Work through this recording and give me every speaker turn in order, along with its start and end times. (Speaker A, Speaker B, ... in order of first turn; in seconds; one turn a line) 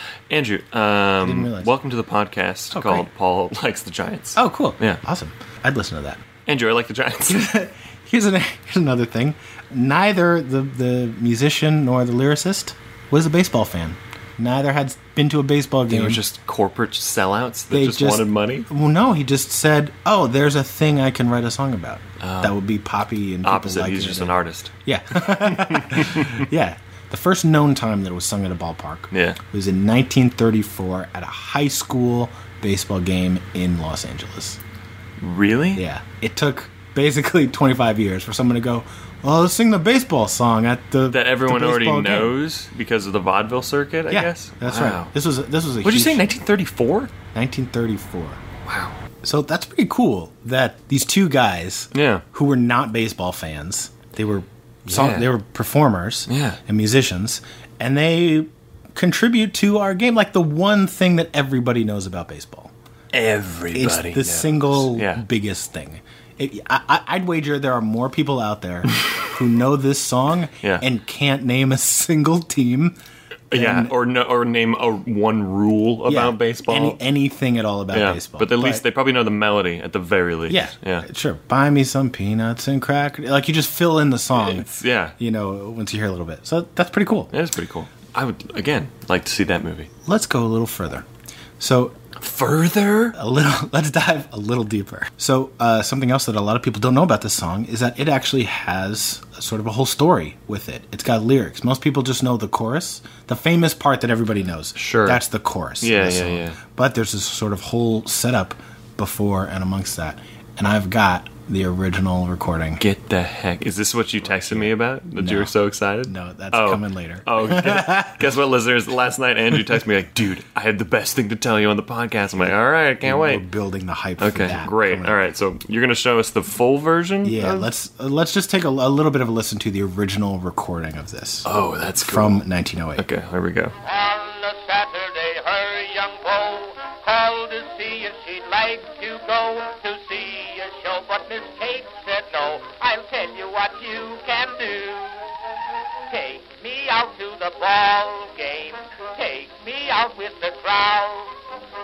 Speaker A: 0.3-5.0
Speaker B: 1.2-1.7
Speaker B: 2.7-3.1
Speaker B: 4.4-6.2
Speaker A: 6.5-7.5
Speaker B: 7.3-16.2
Speaker A: 15.9-18.7
Speaker B: 17.7-34.6
Speaker A: 22.2-22.6
Speaker A: 23.4-26.4
Speaker A: 29.1-29.4
Speaker A: 35.2-35.8
Speaker B: 35.8-42.4
Speaker A: 41.1-45.1
Speaker B: 44.1-46.3
Speaker A: 45.8-47.1
Speaker B: 47.3-48.4
Speaker A: 48.7-49.0
Speaker B: 49.2-62.7
Speaker A: 51.9-52.2
Speaker A: 54.9-55.3
Speaker A: 56.3-56.6
Speaker A: 63.1-65.2
Speaker B: 63.7-73.0
Speaker A: 73.5-77.0
Speaker B: 73.5-73.9
Speaker B: 76.1-78.8
Speaker A: 77.9-81.1
Speaker B: 80.5-87.3
Speaker A: 84.3-85.1
Speaker A: 87.3-89.9
Speaker B: 90.0-91.1
Speaker B: 91.6-92.0
Speaker A: 92.2-93.2
Speaker B: 93.1-112.8
Speaker A: 104.8-105.2
Speaker A: 105.8-106.6
Speaker A: 112.8-123.5
Speaker B: 114.2-115.5
Speaker B: 116.1-118.3
Speaker B: 123.0-125.2
Speaker A: 124.2-127.7
Speaker B: 127.2-131.5
Speaker A: 131.4-132.4
Speaker B: 132.0-133.1
Speaker A: 133.0-133.8
Speaker C: 133.8-145.3
Speaker C: 146.1-151.4